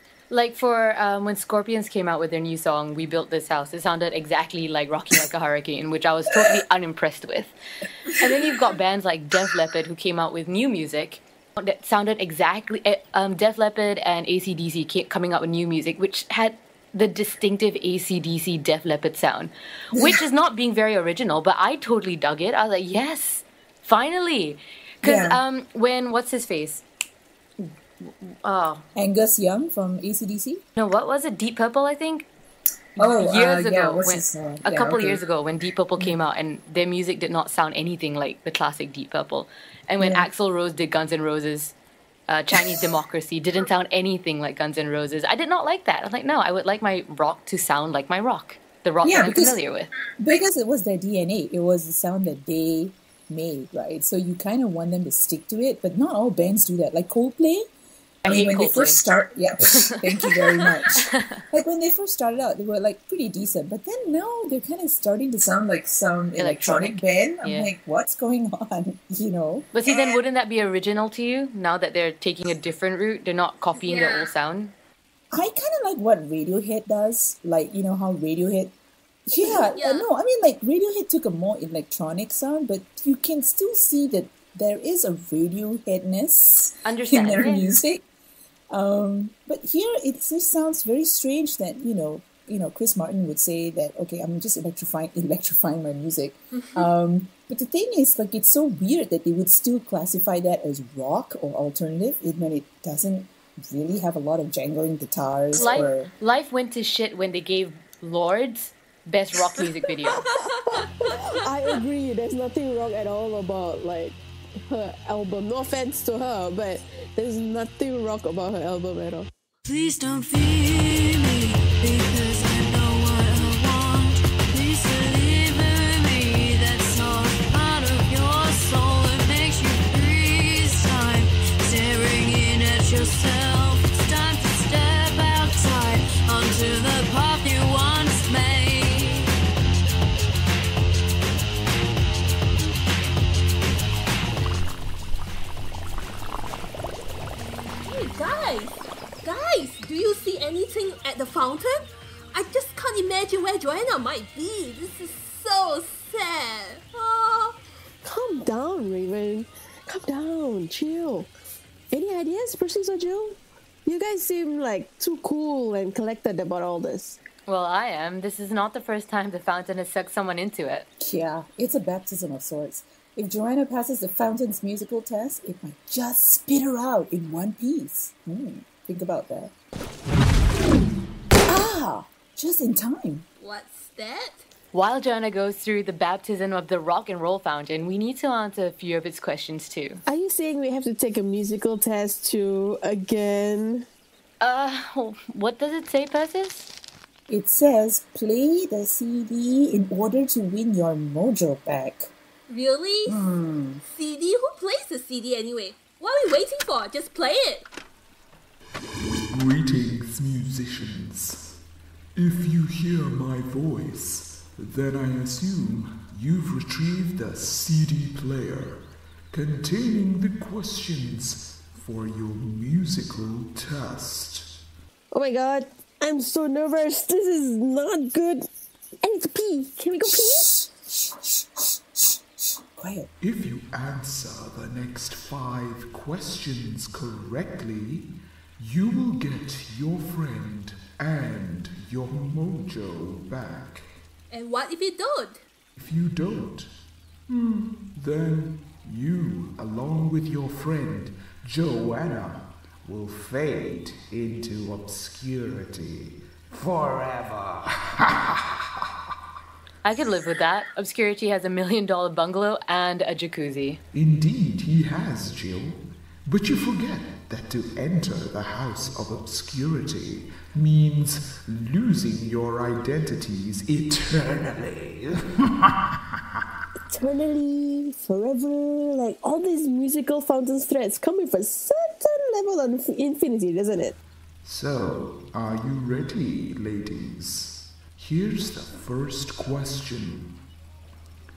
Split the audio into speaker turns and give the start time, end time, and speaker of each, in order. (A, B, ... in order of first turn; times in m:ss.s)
0:00.3-0:07.5 A
0:08.1-0:26.8 A
0:19.9-0:20.2 B
0:25.0-0:25.4 B
0:27.6-0:28.8 A
0:28.9-0:30.6 B
0:30.8-0:32.3 A
0:33.0-0:41.7 A
0:33.0-0:35.2 B
0:40.0-0:40.2 B
0:42.3-0:49.9 A
0:49.0-0:49.6 B
0:50.2-0:57.7 B
0:58.2-0:59.0 A
0:58.2-1:09.7 B
0:59.8-1:01.4 A
1:06.4-1:07.7 A
1:09.7-1:14.7 A
1:13.8-1:14.3 C
1:15.3-1:18.7 B
1:19.3-1:28.0 B
1:19.7-1:20.0 C
1:26.8-1:27.7 A
1:28.7-1:46.1 B
1:45.5-1:50.2 A
1:50.2-1:54.2 D
1:54.7-1:59.3 D
1:59.6-2:19.3 E
2:27.8-2:37.6 C
2:38.0-2:41.3 D
2:41.9-2:47.2 D
2:47.4-2:50.9 A
2:51.0-2:59.5 B
3:01.4-3:03.2 B
3:03.4-3:04.4 C
3:04.7-3:10.0 A
3:10.1-3:13.8 D
3:14.4-3:16.7 A
3:17.3-3:22.1 B
3:22.5-3:23.2 C
3:23.1-3:23.8 B
3:23.9-3:27.6 C
3:29.3-3:31.6 F
3:32.2-3:44.6 F
3:45.1-3:48.5 D
3:49.0-3:50.5 D
3:50.0-3:52.2 B
3:52.7-3:53.1 B
3:53.2-4:03.9 F
4:04.3-4:05.4 C
4:05.8-4:06.7 F
4:07.3-4:18.4 F
4:19.8-4:23.8 A
4:23.9-4:36.0 F
4:36.9-4:44.0 D
4:44.4-4:50.4 F